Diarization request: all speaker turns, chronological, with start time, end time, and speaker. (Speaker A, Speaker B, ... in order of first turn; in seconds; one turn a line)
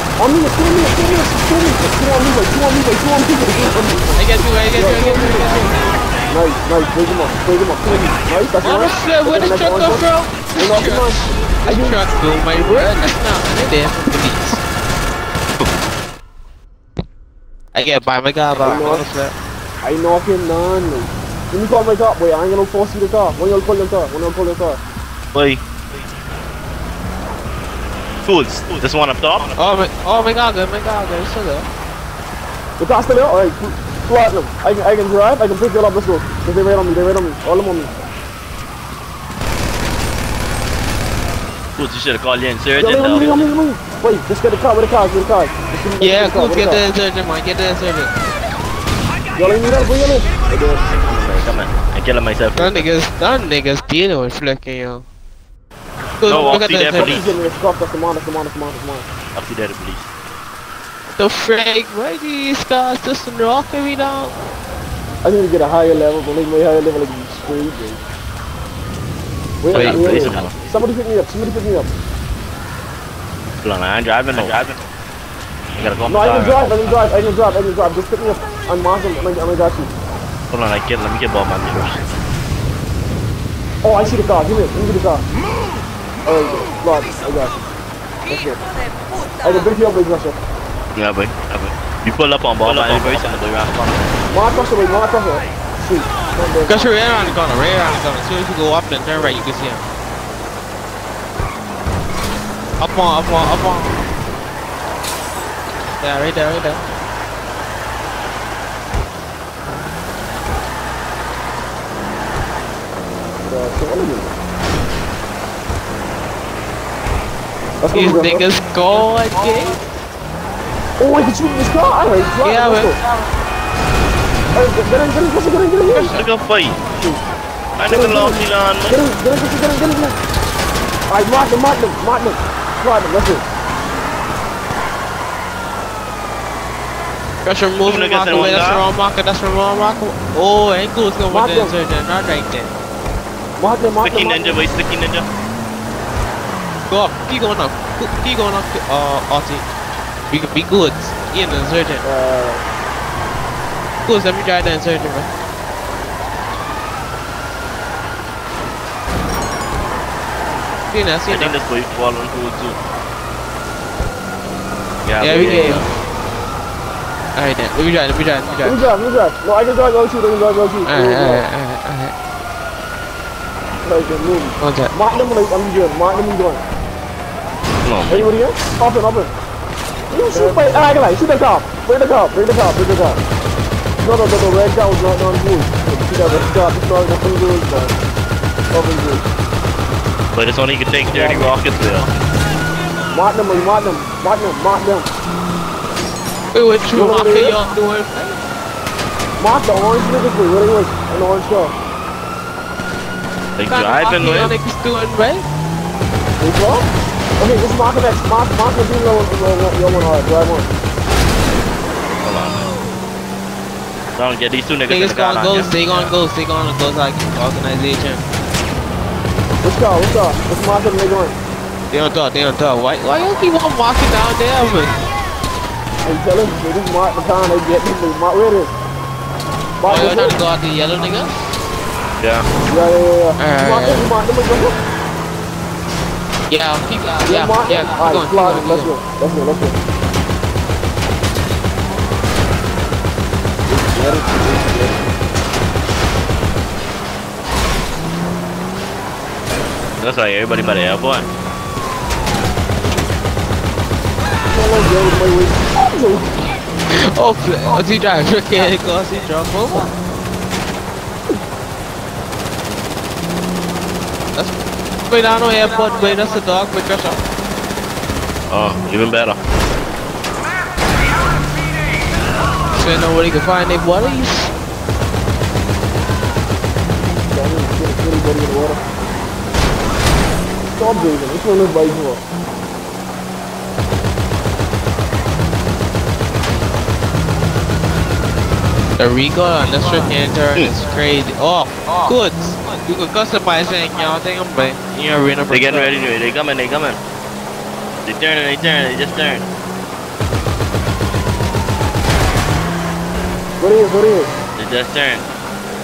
Speaker A: 0.2-5.5
Speaker B: 4.1-6.0
Speaker A: 6.3-12.0
Speaker B: 8.6-14.6
Speaker B: 17.7-19.3
Speaker A: 18.6-19.1
Speaker A: 19.8-24.8
Speaker C: 25.3-25.6
Speaker C: 28.2-29.5
Speaker B: 29.5-31.7
Speaker A: 32.8-37.9
Speaker C: 41.8-43.5
Speaker A: 42.8-46.8
Speaker B: 46.0-48.1
Speaker A: 49.3-51.0
Speaker C: 50.9-52.9
Speaker B: 52.5-55.0
Speaker B: 56.2-57.2
Speaker C: 56.2-57.2
Speaker A: 56.9-59.1
Speaker C: 59.3-60.1
Speaker B: 61.1-64.3
Speaker A: 65.2-68.0
Speaker A: 69.6-71.9
Speaker C: 69.7-70.5
Speaker B: 69.7-70.0
Speaker C: 73.6-74.7
Speaker C: 75.8-77.0
Speaker A: 76.0-79.9
Speaker C: 80.5-82.0
Speaker A: 83.8-85.2
Speaker A: 86.2-87.6
Speaker A: 88.2-88.6
Speaker A: 89.4-90.4
Speaker C: 90.9-94.2
Speaker A: 94.3-96.9
Speaker B: 96.6-99.8
Speaker A: 99.1-99.4
Speaker B: 102.8-104.0
Speaker B: 106.0-106.8
Speaker A: 113.5-114.3
Speaker A: 117.8-118.5
Speaker B: 117.9-119.8
Speaker A: 121.0-123.0
Speaker B: 122.4-123.0
Speaker A: 124.5-126.2
Speaker B: 125.9-126.2
Speaker C: 126.1-126.8
Speaker A: 126.9-127.2
Speaker C: 127.8-129.0
Speaker A: 127.8-130.2
Speaker A: 131.1-133.4
Speaker B: 137.4-142.7
Speaker C: 137.8-138.8
Speaker A: 138.3-138.6
Speaker A: 141.3-141.7
Speaker A: 143.6-144.6
Speaker C: 144.0-145.2
Speaker B: 146.9-149.7
Speaker B: 150.3-152.0
Speaker A: 152.0-152.6
Speaker B: 154.0-155.3
Speaker B: 160.9-161.6
Speaker C: 161.3-162.8
Speaker C: 165.0-165.9
Speaker B: 165.2-165.8
Speaker B: 167.3-168.8
Speaker A: 168.6-171.4
Speaker B: 170.8-172.1
Speaker A: 173.8-176.6
Speaker B: 174.6-174.9
Speaker C: 177.8-178.3
Speaker A: 178.1-179.3
Speaker A: 180.1-183.2
Speaker A: 184.0-187.9
Speaker A: 188.7-189.3
Speaker C: 190.3-192.1
Speaker A: 191.0-191.6
Speaker A: 193.1-195.1
Speaker B: 196.5-198.4
Speaker A: 196.9-197.6
Speaker A: 199.4-201.7
Speaker C: 203.6-204.5
Speaker B: 203.7-205.4
Speaker A: 206.4-210.7
Speaker C: 212.2-212.7
Speaker C: 214.2-216.1
Speaker B: 214.9-218.2
Speaker A: 219.6-221.3
Speaker B: 221.9-225.0
Speaker A: 226.0-228.7
Speaker A: 229.8-230.4
Speaker B: 229.8-231.5
Speaker C: 232.2-232.4
Speaker A: 232.6-234.8
Speaker B: 233.4-234.0
Speaker B: 236.5-238.9
Speaker A: 237.2-239.8
Speaker A: 243.7-245.1
Speaker C: 250.0-251.3
Speaker A: 254.5-256.3
Speaker B: 256.9-259.9
Speaker B: 265.1-267.2
Speaker C: 268.5-269.4
Speaker B: 272.7-274.5
Speaker A: 277.2-278.8
Speaker A: 280.6-282.2
Speaker B: 289.0-295.9
Speaker C: 295.5-297.0
Speaker C: 298.0-299.5
Speaker A: 303.6-304.3
Speaker C: 304.6-305.2